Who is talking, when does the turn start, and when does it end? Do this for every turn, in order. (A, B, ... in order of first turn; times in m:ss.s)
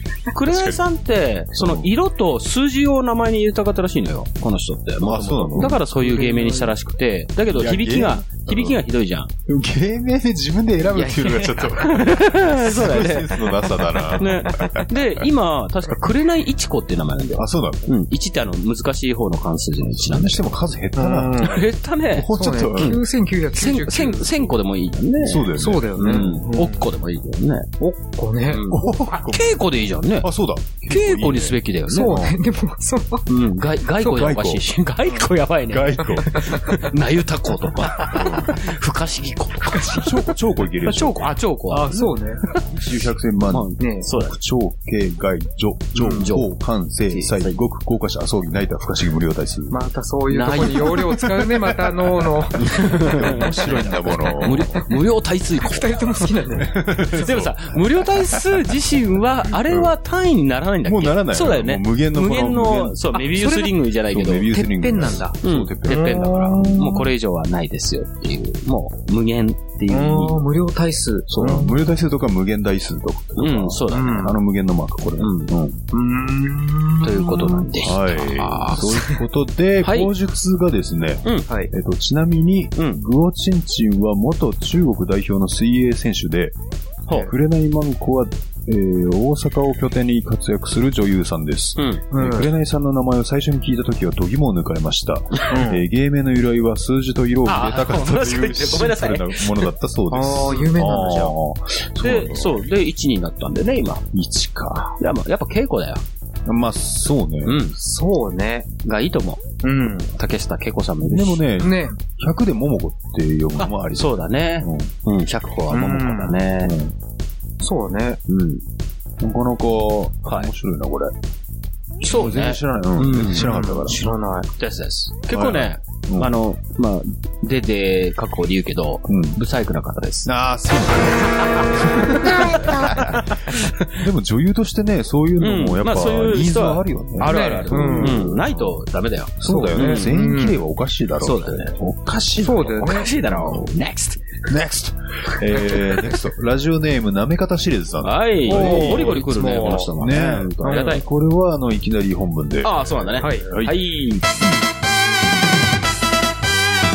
0:00.3-0:09.3 A
0:00.4-0:00.8 B
0:01.5-0:01.9 B
0:05.0-0:05.8 B
0:07.5-0:08.8 B
0:09.5-0:15.3 B
0:10.9-0:20.4 A
0:17.3-0:17.9 B
0:19.8-0:23.0 B
0:21.0-0:21.4 C
0:21.3-0:23.0 A
0:22.4-0:24.2 C
0:23.5-0:27.7 A
0:25.2-0:26.4 B
0:25.6-0:26.8 C
0:27.8-0:28.6 C
0:28.5-0:30.3 A
0:28.7-0:29.6 B
0:30.2-0:32.4 B
0:30.9-0:32.2 A
0:32.0-0:33.2 C
0:33.3-0:40.3 A
0:34.0-0:34.6 B
0:35.7-0:36.7 B
0:38.0-0:38.6 B
0:39.6-0:41.3 B
0:40.8-0:42.1 A
0:41.7-0:42.4 C
0:42.7-0:49.8 B
0:43.5-0:44.3 A
0:46.2-0:46.5 A
0:47.1-0:47.6 A
0:49.7-0:52.5 C
0:50.3-0:51.0 A
0:50.5-0:54.9 B
0:52.8-0:53.7 A
0:54.3-0:56.0 A
0:55.8-0:56.7 C
0:56.5-0:58.7 B
0:57.2-1:04.5 A
0:59.5-0:59.9 B
1:00.8-1:03.0 B
1:04.1-1:07.1 B
1:04.5-1:05.4 C
1:05.4-1:10.4 A
1:05.9-1:06.6 C
1:09.9-1:11.7 C
1:11.3-1:15.8 B
1:13.4-1:14.3 A
1:15.2-1:15.5 A
1:16.1-1:17.0 C
1:17.0-1:18.8 A
1:17.0-1:26.6 B
1:19.8-1:20.1 A
1:22.8-1:23.0 A
1:27.1-1:42.6 B
1:31.8-1:32.0 A
1:32.1-1:32.4 C
1:35.5-1:35.8 C
1:37.4-1:39.6 A
1:40.1-1:41.3 C
1:42.0-1:44.0 A
1:44.1-1:45.0 B
1:45.0-1:46.0 A
1:46.4-1:47.6 B
1:47.4-1:47.8 A
1:47.8-1:48.6 C
1:48.8-1:49.4 A
1:49.6-1:50.1 C
1:50.1-1:51.5 A
1:51.0-1:54.9 B
1:51.6-1:51.9 C
1:53.6-1:56.8 A
1:55.8-1:56.3 C
1:56.6-1:56.9 B
1:57.6-1:58.2 C
1:58.3-1:58.6 A
1:59.2-2:01.1 B
2:00.2-2:00.5 A
2:02.0-2:03.5 A
2:02.0-2:04.0 B
2:03.5-2:04.4 C
2:04.6-2:10.3 A
2:05.3-2:06.3 B
2:09.1-2:09.4 B
2:10.2-2:18.8 B
2:12.1-2:13.9 A
2:15.4-2:20.1 A
2:17.3-2:18.2 C
2:19.4-2:23.7 B
2:20.1-2:20.6 C
2:21.2-2:21.8 A
2:22.4-2:23.0 C
2:22.5-2:24.2 A
2:24.5-2:34.6 B
2:25.6-2:26.1 A
2:28.0-2:31.0 A
2:28.5-2:29.8 C
2:32.6-2:34.3 A